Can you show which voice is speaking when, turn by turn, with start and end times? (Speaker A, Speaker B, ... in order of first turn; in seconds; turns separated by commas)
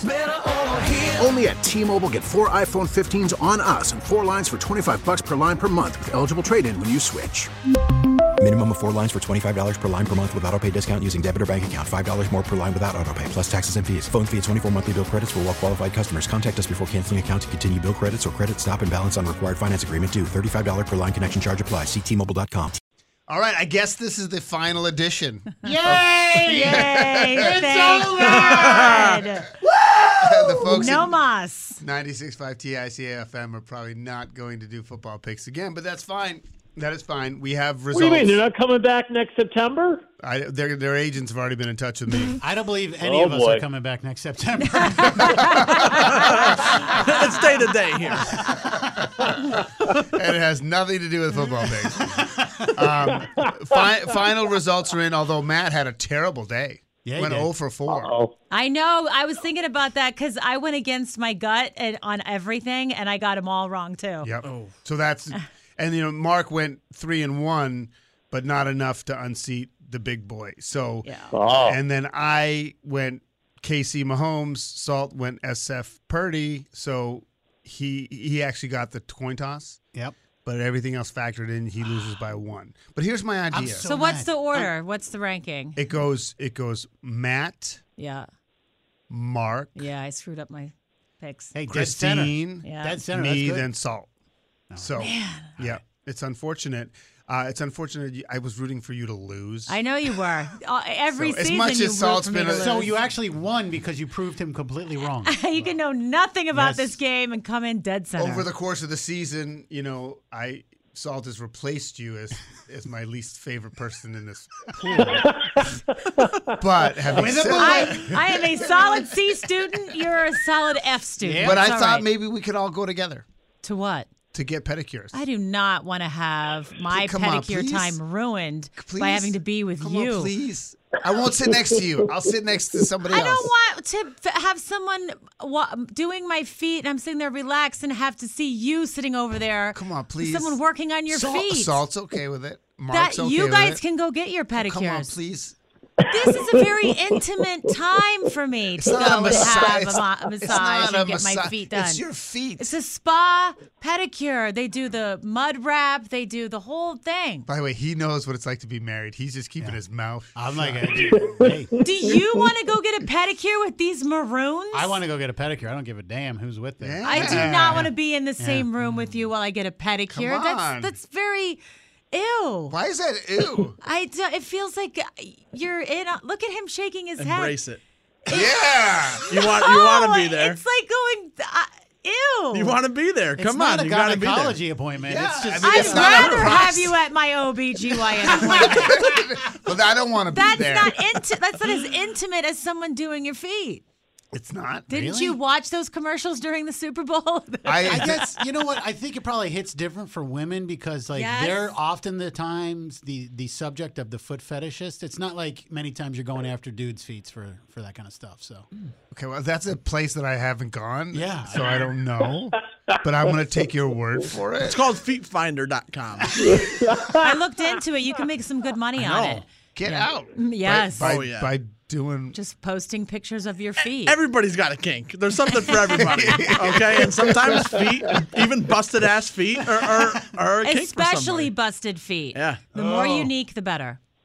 Speaker A: 1.1-7.5, Speaker B: 8.4-22.8, Speaker C: 23.3-27.8, Speaker D: 25.6-29.2, Speaker E: 26.5-29.5, Speaker F: 28.3-29.2, Speaker C: 30.2-31.2, Speaker E: 30.6-31.8, Speaker C: 31.8-38.4, Speaker G: 37.9-40.0, Speaker C: 40.2-42.4, Speaker D: 42.4-45.5, Speaker G: 43.0-43.6, Speaker C: 45.1-47.0, Speaker F: 46.1-48.3, Speaker C: 48.6-58.2, Speaker D: 52.1-52.7, Speaker D: 57.0-57.5, Speaker G: 57.9-58.3, Speaker E: 58.5-64.3, Speaker C: 64.2-79.8, Speaker F: 64.4-64.7, Speaker E: 71.0-71.3, Speaker G: 71.3-71.8, Speaker C: 80.4-83.9, Speaker D: 81.9-82.2, Speaker D: 83.5-84.3, Speaker E: 83.8-85.8, Speaker C: 85.8-87.8, Speaker E: 88.0-88.3, Speaker C: 89.1-89.8, Speaker E: 89.8-91.5, Speaker D: 91.5-93.7, Speaker C: 91.7-94.1, Speaker E: 92.6-93.0, Speaker D: 94.7-95.0, Speaker C: 94.8-99.8, Speaker E: 95.0-95.5, Speaker D: 95.6-95.8, Speaker E: 99.7-103.0, Speaker C: 101.1-102.8, Speaker D: 102.5-105.8, Speaker E: 105.3-108.5, Speaker D: 106.5-107.0, Speaker C: 108.2-115.3, Speaker D: 114.9-115.2, Speaker G: 115.1-115.6, Speaker C: 116.6-118.2, Speaker D: 117.1-118.2, Speaker E: 117.6-122.1, Speaker D: 121.2-121.7, Speaker C: 121.4-123.3, Speaker E: 123.6-124.1, Speaker C: 124.3-125.2, Speaker E: 125.1-130.3, Speaker C: 126.9-128.0, Speaker C: 128.8-133.5, Speaker E: 133.1-141.9, Speaker C: 139.7-143.8, Speaker E: 142.9-145.2, Speaker C: 144.5-145.6, Speaker E: 146.1-152.1, Speaker C: 148.8-152.8, Speaker G: 149.3-149.6, Speaker E: 152.6-157.5, Speaker C: 157.5-161.1, Speaker D: 160.3-161.7, Speaker G: 161.1-162.2, Speaker E: 161.8-165.0, Speaker D: 164.7-169.3, Speaker C: 166.8-167.9, Speaker E: 167.0-171.6, Speaker C: 170.1-170.9, Speaker E: 172.1-172.8, Speaker C: 172.7-173.8, Speaker E: 173.8-177.6, Speaker F: 177.2-177.8, Speaker E: 178.3-182.8, Speaker C: 178.3-179.2, Speaker F: 179.3-180.6, Speaker F: 182.5-184.6, Speaker D: 183.4-186.5, Speaker C: 185.0-187.0, Speaker E: 185.6-189.1, Speaker F: 186.1-186.7, Speaker C: 188.2-191.2, Speaker E: 190.3-193.8, Speaker C: 194.3-194.9, Speaker E: 194.9-198.3, Speaker D: 194.9-195.4, Speaker C: 197.7-198.2, Speaker D: 197.8-208.7, Speaker E: 201.1-201.8, Speaker C: 209.1-214.8, Speaker D: 211.1-211.9, Speaker F: 214.6-216.4, Speaker G: 216.4-217.3, Speaker E: 217.2-221.1, Speaker F: 219.0-219.4, Speaker C: 219.8-222.4, Speaker F: 221.0-221.6, Speaker E: 222.3-224.2, Speaker F: 224.0-231.5, Speaker E: 225.7-226.0, Speaker C: 225.9-227.8, Speaker E: 230.6-234.0, Speaker F: 232.3-232.7, Speaker D: 232.7-233.3